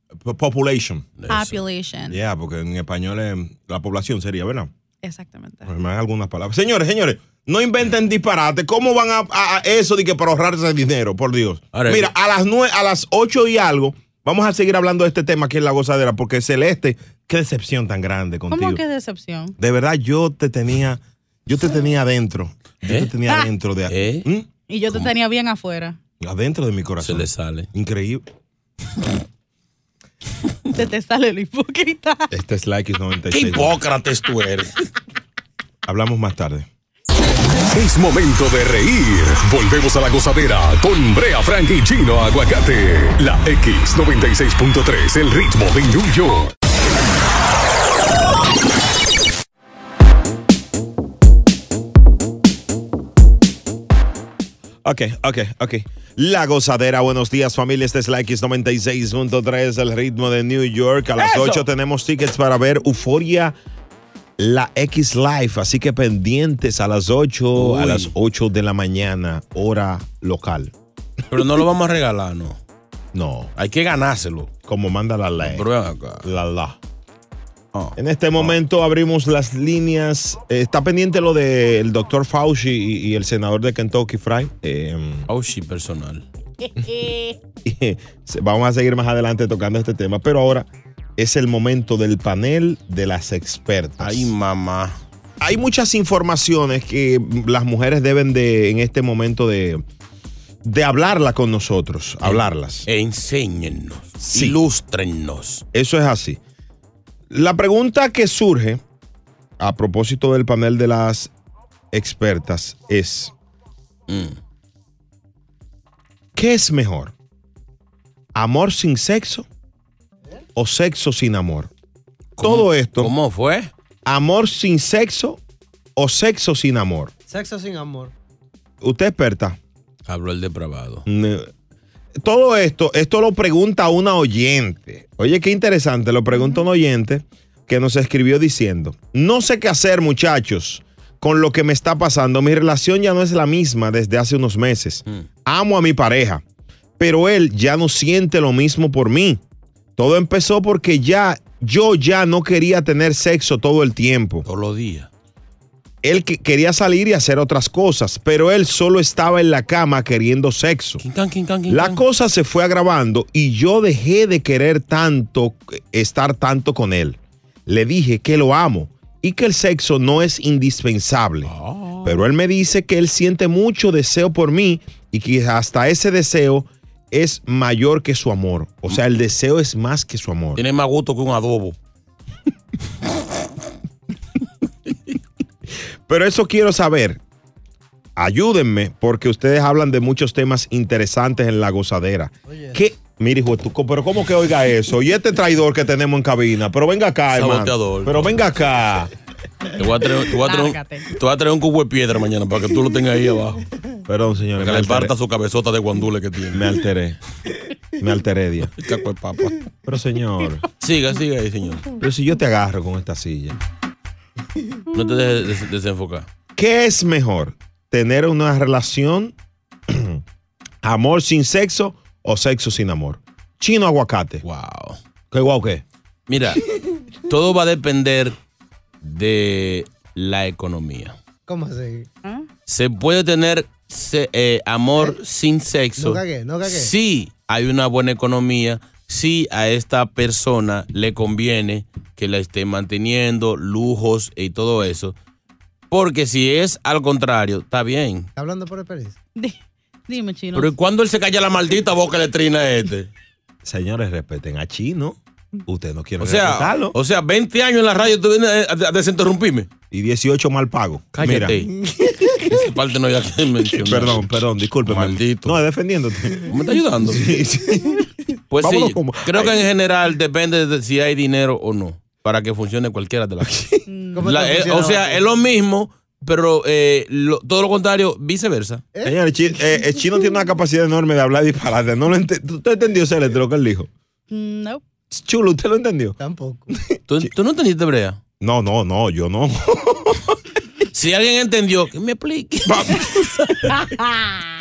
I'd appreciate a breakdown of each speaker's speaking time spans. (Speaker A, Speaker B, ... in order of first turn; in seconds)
Speaker A: 0.2-1.1, 2.1-4.7, 5.6-18.8, 19.6-24.4, 26.2-28.2, 32.3-33.7, 35.8-36.7, 54.8-63.5, 64.4-70.7, 73.1-73.5, 74.7-75.6, 76.2-76.8, 78.0-85.3, 87.6-94.3, 95.4-99.8, 100.6-102.8, 104.2-104.6, 105.7-106.4, 107.3-108.8, 109.6-111.3, 111.9-113.3, 116.3-117.1, 118.3-119.5, 120.5-121.7, 122.4-123.1, 124.0-125.4, 126.0-127.1, 128.8-129.6, 131.1-131.5, 132.2-146.4, 147.0-149.4, 150.0-154.4, 156.0-161.0, 161.7-171.5, 172.0-180.6, 186.1-187.2, 188.2-199.1, 204.1-205.1, 206.5-207.2, 208.0-208.7, 209.9-210.6, 212.0-213.6, 216.5-219.3, 219.9-220.2, 220.8-224.4, 225.3-225.8, 253.6-256.9, 259.9-261.7, 263.7-266.5, 267.1-268.0, 268.6-269.6, 279.0-283.9, 285.1-286.2, 288.4-290.3, 292.7-293.1
Speaker B: 1.2-1.6, 11.7-12.1, 22.8-23.1, 23.9-24.3, 27.0-27.7, 33.3-34.7, 67.5-68.1, 71.3-72.6, 73.5-74.5, 75.4-76.2, 77.7-78.5, 85.3-86.2, 94.0-95.0, 102.2-105.6, 114.1-114.4, 122.4-123.7, 130.1-131.0, 154.4-155.1, 161.0-162.0, 171.4-172.2, 180.6-181.8, 197.3-198.4, 199.8-203.6, 204.6-206.8, 208.8-209.6, 210.8-211.9, 214.9-216.3, 224.4-225.0, 226.3-226.6, 227.3-228.3, 229.0-231.2, 232.7-245.1, 245.9-248.3, 250.5-253.1, 256.2-259.7, 261.1-261.7, 262.5-264.2, 264.8-265.6, 266.5-267.3, 268.5-273.6, 274.2-278.8, 287.1-288.2, 290.9-293.5
Speaker C: 1.3-2.2, 5.0-5.7, 18.5-19.5, 24.7-26.0, 30.7-32.3, 86.6-87.4, 200.4-201.1, 249.4-250.7, 273.9-274.2, 284.3-284.8
Speaker D: 37.7-46.5
Speaker E: 127.3-128.1, 192.4-192.8, 231.5-232.1, 236.0-236.9, 248.3-249.2, 274.1-275.4, 278.9-279.2, 286.2-286.7